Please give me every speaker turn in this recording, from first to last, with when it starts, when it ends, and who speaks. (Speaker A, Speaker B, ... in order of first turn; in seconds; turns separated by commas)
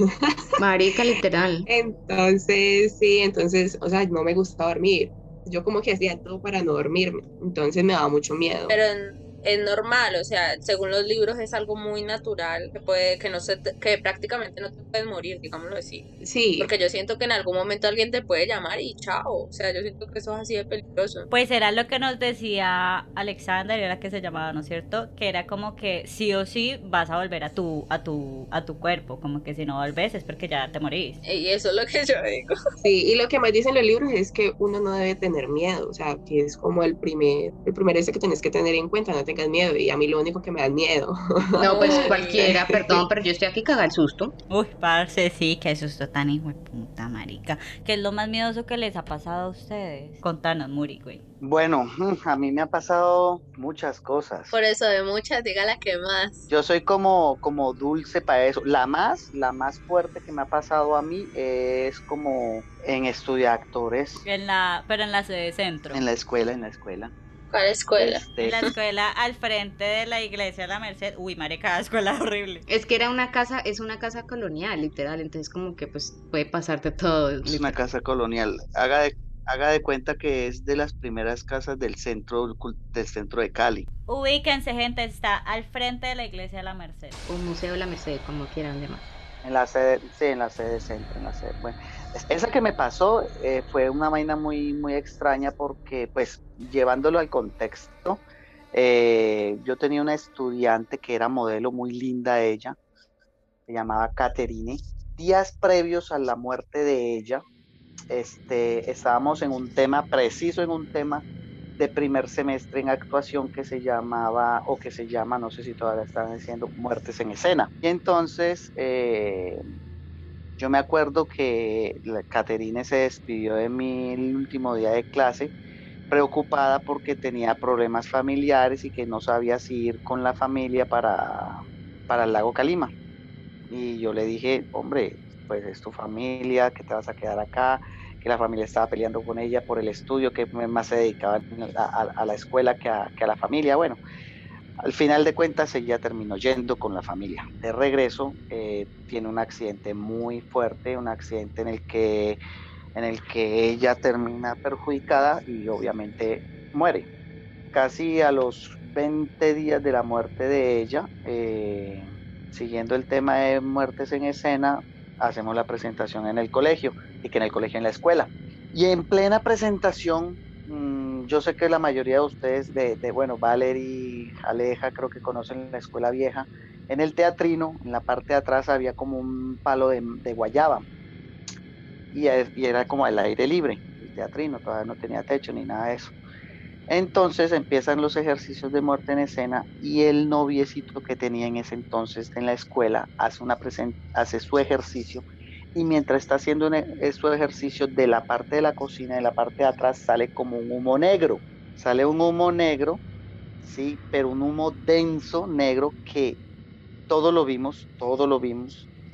Speaker A: 0.6-1.7, Speaker B: 1.7-8.8, Speaker C: 8.7-16.1, Speaker B: 16.2-16.7, Speaker C: 16.6-21.3, Speaker D: 21.3-31.2, Speaker C: 31.2-32.5, Speaker B: 32.8-43.0, Speaker A: 41.6-44.3, Speaker C: 41.6-42.4, Speaker D: 44.5-51.2, Speaker E: 51.4-54.5, Speaker C: 54.5-56.5, Speaker E: 56.5-64.2, Speaker D: 64.2-66.0, Speaker E: 65.9-67.1, Speaker C: 67.5-68.2, Speaker E: 68.0-68.7, Speaker D: 68.4-72.6, Speaker A: 72.7-77.8, Speaker E: 77.4-83.9, Speaker D: 84.1-87.2, Speaker A: 87.3-89.0, Speaker E: 89.4-98.2, Speaker E: 98.7-102.8, Speaker E: 103.7-107.4, Speaker E: 108.1-111.2, Speaker E: 111.8-119.6, Speaker E: 120.6-125.5, Speaker E: 126.1-132.9, Speaker E: 133.7-144.0, Speaker E: 144.8-152.4, Speaker E: 152.9-157.1, Speaker E: 157.7-180.8, Speaker E: 182.1-186.1, Speaker E: 186.9-203.0, Speaker E: 203.6-206.4, Speaker E: 207.1-208.8